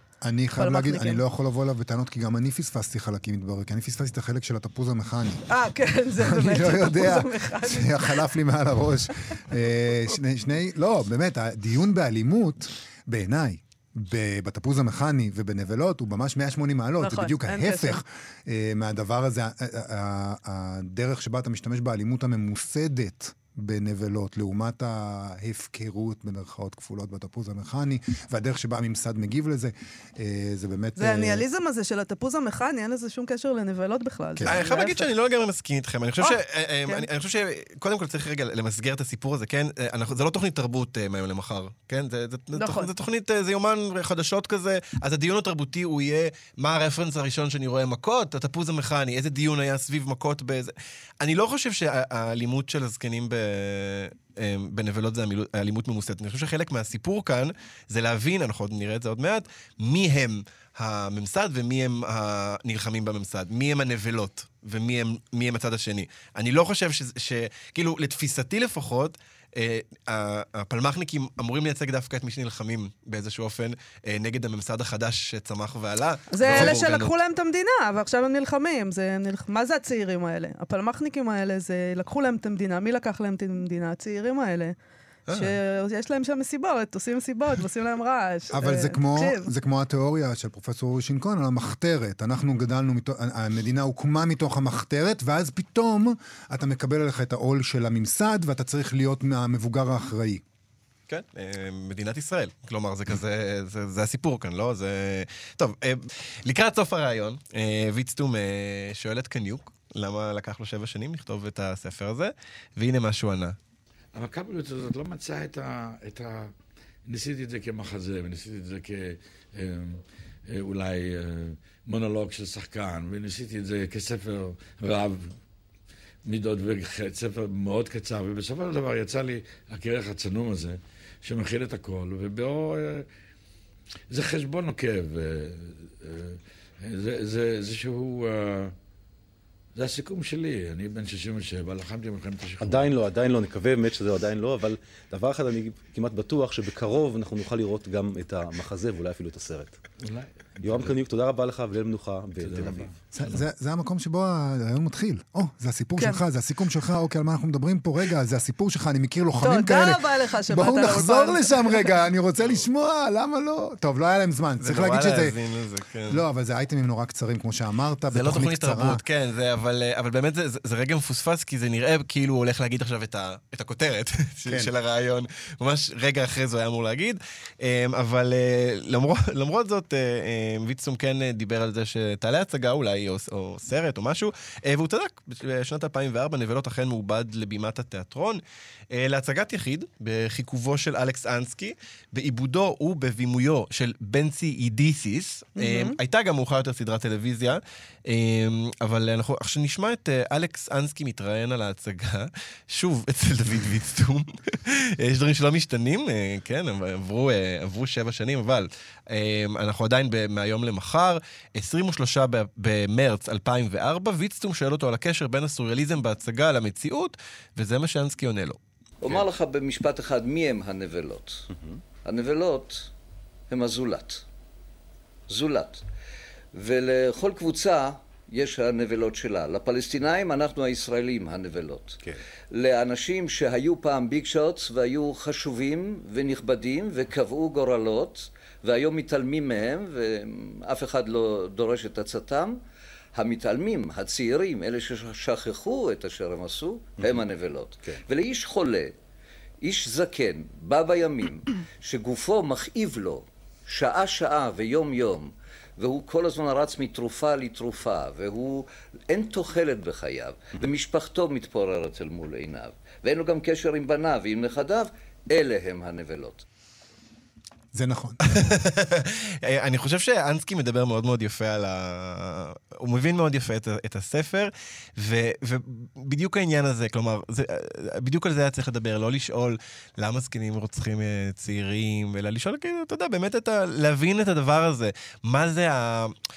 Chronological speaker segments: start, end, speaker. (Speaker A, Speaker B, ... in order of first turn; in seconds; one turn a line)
Speaker A: 0.2-5.5
Speaker B: 0.6-1.2
Speaker B: 5.5-8.3
Speaker A: 6.2-31.4
Speaker B: 17.0-18.0
Speaker B: 31.0-35.0
Speaker A: 34.4-34.6
Speaker C: 34.4-77.1
Speaker B: 36.2-37.0
Speaker B: 42.5-42.9
Speaker B: 76.3-84.7
Speaker C: 85.3-85.5
Speaker B: 85.3-89.5
Speaker A: 88.5-100.4
Speaker C: 101.1-113.6
Speaker D: 114.1-116.5
Speaker D: 117.1-125.4
Speaker D: 126.3-133.1
Speaker D: 134.1-138.7
Speaker D: 139.7-142.9
Speaker E: 142.6-149.8
Speaker D: 150.0-150.9
Speaker E: 150.6-152.9
Speaker D: 152.4-153.3
Speaker A: 153.1-165.4
Speaker B: 156.0-156.2
Speaker B: 159.4-161.9
Speaker C: 164.6-166.2
Speaker A: 166.1-169.0
Speaker C: 168.1-218.6
Speaker A: 174.5-174.7
Speaker B: 195.6-196.0
Speaker F: 219.0-221.4
Speaker F: 222.0-222.9
Speaker F: 223.5-224.2
Speaker F: 225.3-225.8
Speaker F: 226.5-242.6
Speaker F: 243.1-248.9
Speaker F: 249.6-266.4
Speaker A: 267.7-268.4
Speaker C: 268.2-286.1